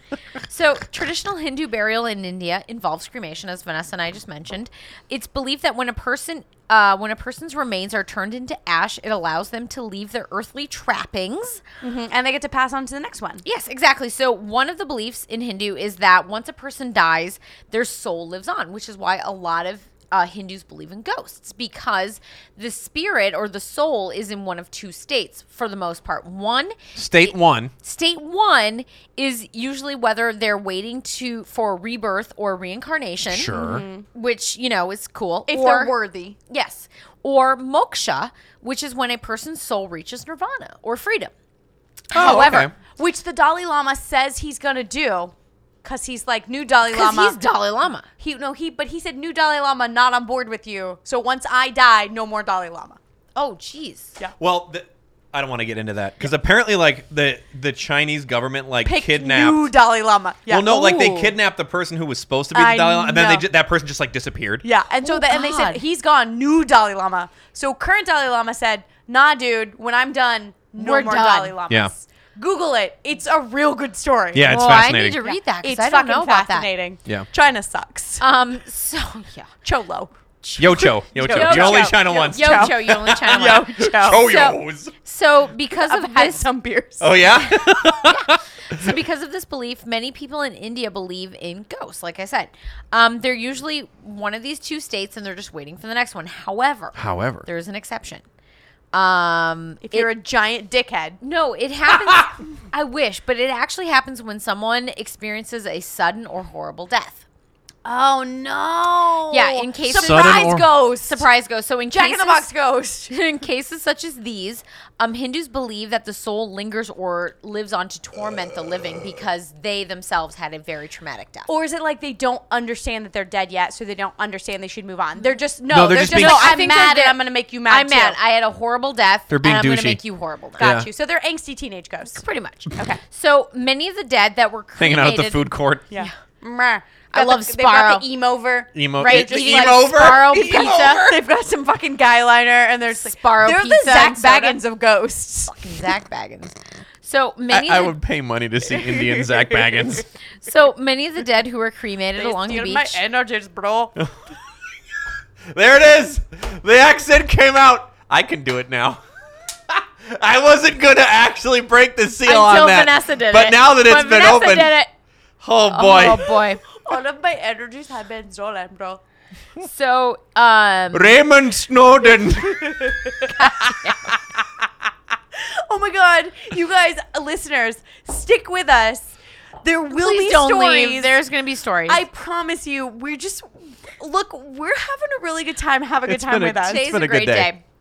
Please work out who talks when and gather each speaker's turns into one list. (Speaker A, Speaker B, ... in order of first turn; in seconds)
Speaker A: 0.3-11.6, 13.4-35.9, 36.5-41.3, 42.1-42.7, 46.9-48.0, 53.4-54.2, 60.6-61.3, 65.0-65.8, 70.8-71.5, 74.4-76.7, 78.2-79.5, 80.8-86.5, 87.3-98.2, 98.9-100.1, 101.2-107.2, 109.3-112.5, 113.1-121.5, 126.0-130.8, 132.1-136.1, 137.1-138.0, 139.0-141.0, 142.9-144.6, 145.5-147.9, 150.4-153.0, 162.2-164.9, 165.7-166.6, 169.6-171.1, 173.4-174.1, 179.9-182.0, 186.6-187.6
Speaker B: 11.8-13.4, 33.5-34.0, 35.5-36.4, 42.2-45.3, 45.8-47.4, 48.2-53.0, 58.8-60.8, 62.5-63.5, 64.6-74.5, 75.2-78.2, 79.6-84.3, 85.7-87.1, 99.8-101.2, 107.8-111.2, 111.9-113.1, 121.5-128.2, 130.6-132.2, 132.7-133.0, 135.9-145.8, 148.7-149.8, 152.2-153.9, 166.8-169.0, 172.3-173.3, 175.3-179.1, 179.6-181.1, 181.9-186.8
Speaker C: 26.9-27.7, 33.3-33.8, 42.1-42.7, 54.4-59.7, 60.5-64.6, 74.3-75.2, 80.6-84.9, 87.0-88.9, 96.9-97.5, 110.0-110.7, 125.7-126.6, 129.3-130.0, 130.6-130.9, 134.8-135.9, 138.7-141.2, 147.5-150.1, 155.5-159.0, 159.7-164.7, 165.4-166.3, 170.9-173.7, 186.1-187.5